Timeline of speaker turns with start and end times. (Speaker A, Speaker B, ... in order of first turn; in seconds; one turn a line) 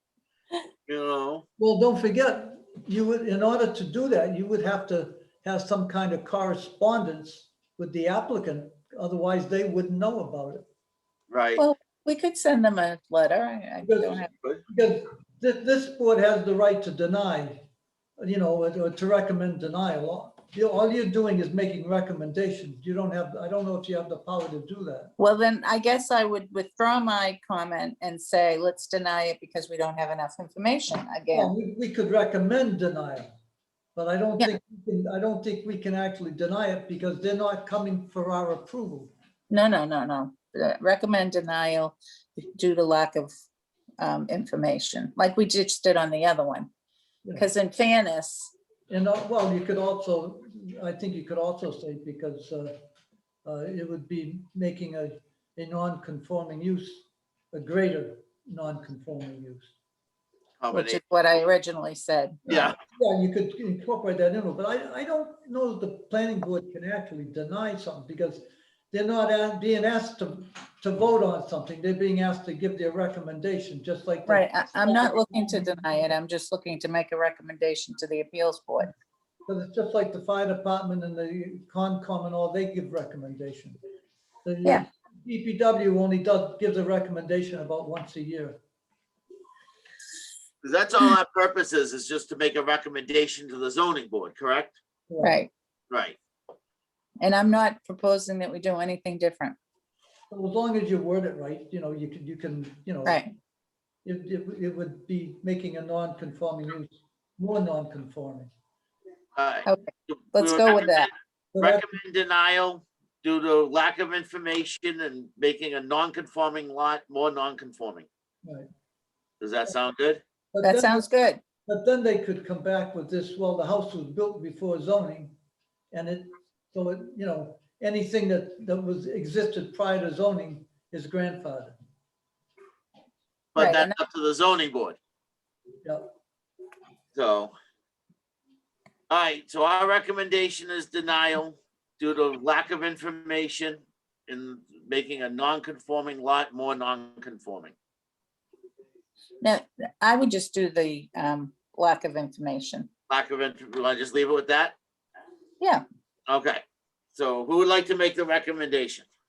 Speaker A: 0.9-1.4
Speaker B: 1.6-10.6
Speaker A: 11.3-11.6
Speaker C: 11.6-14.3
Speaker B: 13.8-17.6
Speaker B: 18.2-25.1
Speaker C: 25.2-31.5
Speaker B: 31.3-33.3
Speaker B: 33.9-39.1
Speaker C: 39.5-43.3
Speaker C: 44.0-46.7
Speaker B: 47.2-47.5
Speaker C: 47.4-48.5
Speaker B: 48.9-52.8
Speaker B: 53.4-59.7
Speaker A: 60.6-61.0
Speaker C: 60.7-62.4
Speaker B: 62.5-75.8
Speaker A: 62.5-62.8
Speaker C: 74.3-78.9
Speaker B: 79.5-83.8
Speaker B: 84.4-88.6
Speaker A: 90.6-94.8
Speaker B: 95.1-95.4
Speaker C: 95.2-95.5
Speaker A: 95.9-96.2
Speaker C: 97.2-99.6
Speaker B: 100.3-103.2
Speaker C: 103.0-103.3
Speaker B: 104.0-108.5
Speaker A: 109.3-118.1
Speaker C: 109.7-111.1
Speaker B: 111.5-111.9
Speaker A: 119.4-120.2
Speaker B: 120.5-121.1
Speaker C: 120.6-121.4
Speaker B: 121.7-125.3
Speaker B: 125.9-131.8
Speaker A: 133.5-135.0
Speaker C: 133.6-133.9
Speaker A: 137.1-137.5
Speaker A: 139.1-147.7
Speaker C: 149.4-152.9
Speaker A: 153.1-154.8
Speaker A: 156.3-159.1